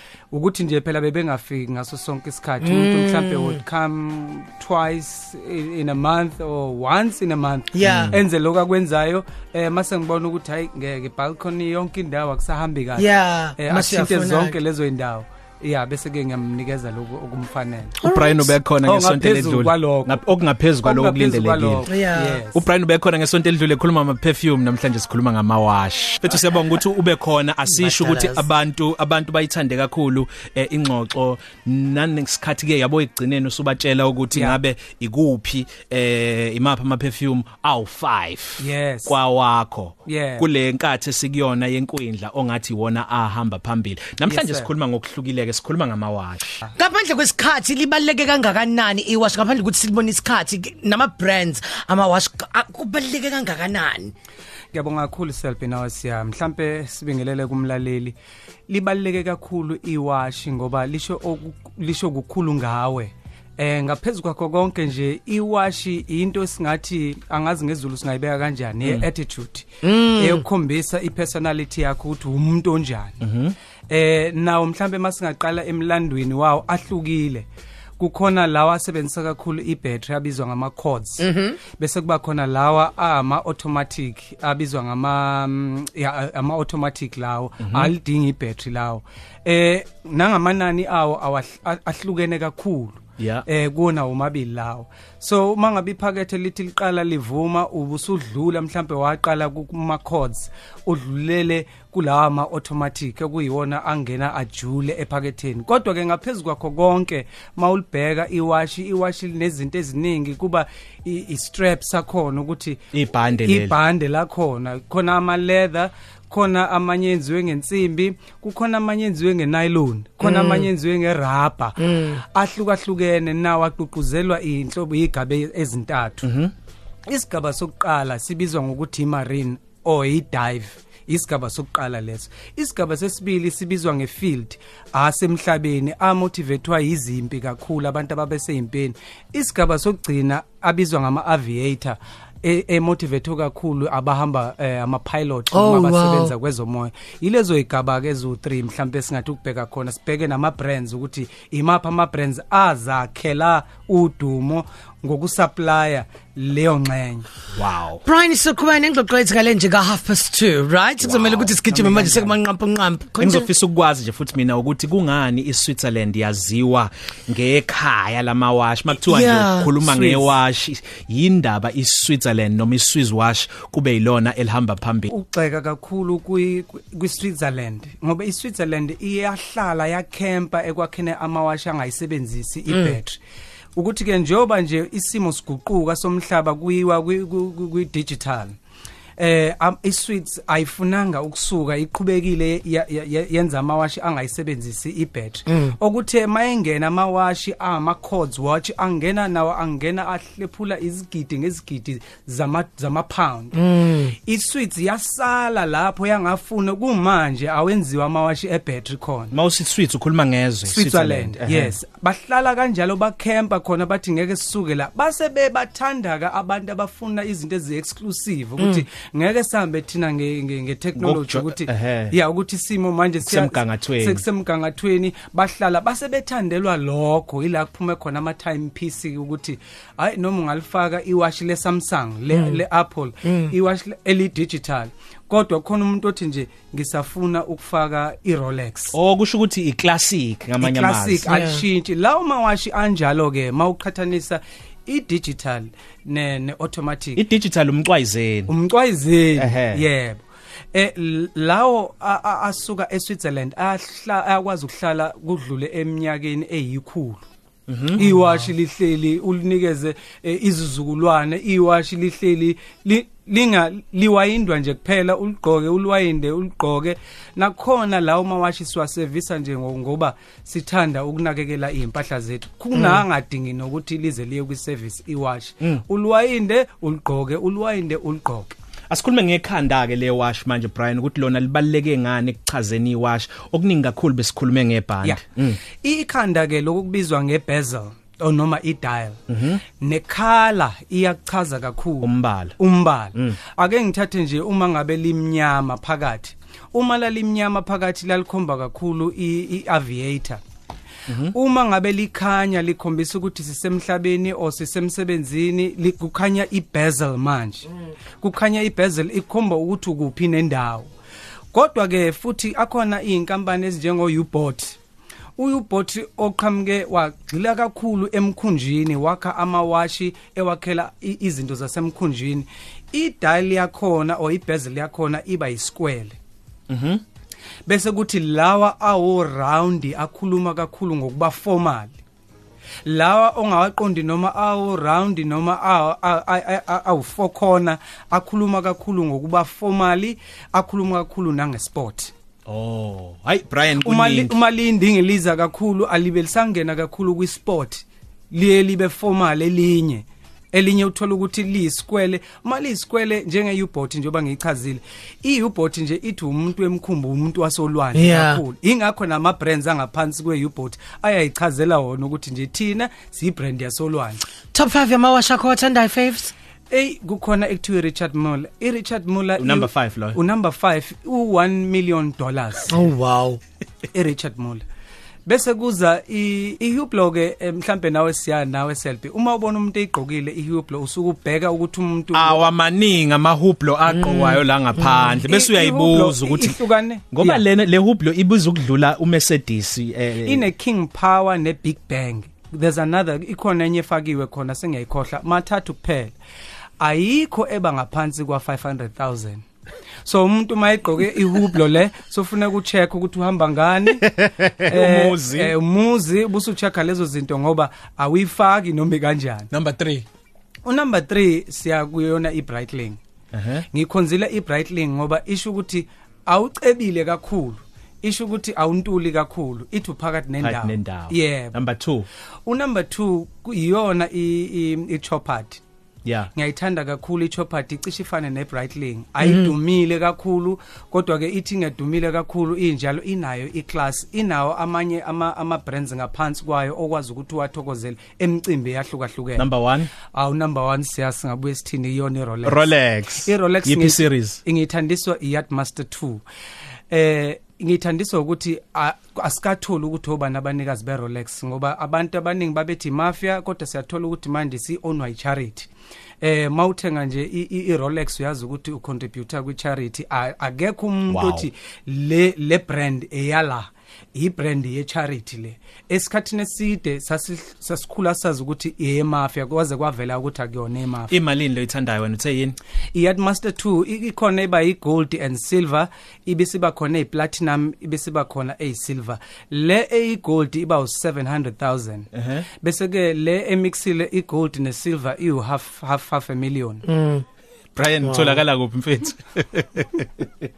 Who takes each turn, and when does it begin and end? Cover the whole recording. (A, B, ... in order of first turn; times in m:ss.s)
0:00.3-0:18.0 A
0:02.6-0:03.6 B
0:07.7-0:08.2 B
0:07.9-0:08.2 C
0:13.0-0:14.6 B
0:18.0-0:21.8 C
0:18.0-0:18.5 B
0:18.8-0:20.2 A
0:20.8-0:22.6 A
0:21.9-0:22.4 B
0:22.5-0:46.6 C
0:27.7-0:28.4 B
0:34.3-0:34.6 A
0:38.6-0:39.2 A
0:40.1-0:40.5 A
0:44.3-0:44.7 A
0:46.8-0:54.1 B
0:54.7-0:58.2 A
0:58.7-1:13.2 A
1:09.8-1:10.4 B
1:13.2-1:13.6 C
1:13.9-1:17.5 A
1:18.0-1:52.8 A
1:21.2-1:21.6 B
1:27.6-1:27.9 C
1:33.2-1:33.4 C
1:52.9-1:53.8 C
1:53.4-2:06.3 A
2:00.2-2:00.7 B
2:01.8-2:02.2 B
2:06.2-2:06.5 C
2:07.1-2:37.3 A
2:25.5-2:26.3 B
2:37.5-2:38.0 C
2:38.0-2:43.5 B
2:41.0-2:42.4 C
2:43.2-2:55.1 C
2:49.0-2:49.7 B
2:49.8-2:50.3 A
2:55.1-3:03.2 A
3:03.8-3:08.6 A
3:09.2-3:29.3 A
3:15.5-3:15.8 B
3:23.6-3:24.1 B
3:29.3-3:31.8 C
3:30.7-3:59.0 A
3:38.6-3:38.8 B
3:41.0-3:42.2 C
3:43.2-3:44.2 C
3:52.3-3:52.6 B
3:53.2-3:53.5 B
3:58.9-4:01.3 C
4:00.6-4:07.2 A
4:01.3-4:01.6 B
4:07.2-4:08.5 C
4:08.5-4:10.2 A
4:09.4-4:09.8 C
4:10.7-4:17.3 A
4:17.7-4:18.1 C
4:18.0-4:38.6 A
4:38.9-4:45.6 C
4:45.8-4:49.2 A
4:49.3-4:49.6 C
4:49.8-5:00.4 A
4:52.0-4:52.6 C
5:01.1-5:01.3 C
5:01.3-5:07.7 A
5:08.2-5:10.9 A
5:11.5-5:14.8 A
5:15.4-5:26.2 A
5:26.7-5:27.0 C
5:27.7-5:32.0 A
5:32.8-5:42.1 A
5:42.5-5:44.4 C
5:43.8-6:04.2 A
5:58.0-5:58.4 B
6:04.5-6:06.3 B
6:06.7-6:12.8 A
6:09.4-6:10.2 C
6:12.7-6:13.4 B
6:13.9-6:14.6 A
6:15.3-6:22.4 A
6:22.1-6:26.6 C
6:25.2-6:27.4 A
6:27.1-6:30.5 C
6:30.2-6:36.1 A
6:36.8-6:39.4 A
6:40.0-6:44.1 A
6:43.9-6:45.6 C
6:44.6-6:49.5 A
6:49.5-6:50.0 C
6:50.6-6:53.0 A
6:53.3-6:53.7 C
6:53.7-7:01.6 A
7:00.4-7:02.1 C
7:02.5-7:05.6 A
7:06.0-7:06.3 C
7:06.3-7:19.5 A
7:09.2-7:09.5 B
7:19.4-7:19.9 C
7:20.1-7:22.7 A
7:22.4-7:24.4 C
7:23.2-7:26.2 A
7:26.9-7:35.7 A
7:36.2-7:51.2 A
7:41.1-7:41.5 C
7:51.1-7:52.6 C
7:52.9-8:02.1 A
8:02.2-8:02.5 C
8:02.6-8:06.8 A
8:06.9-8:07.2 B
8:07.8-8:10.1 C
8:08.0-8:08.4 B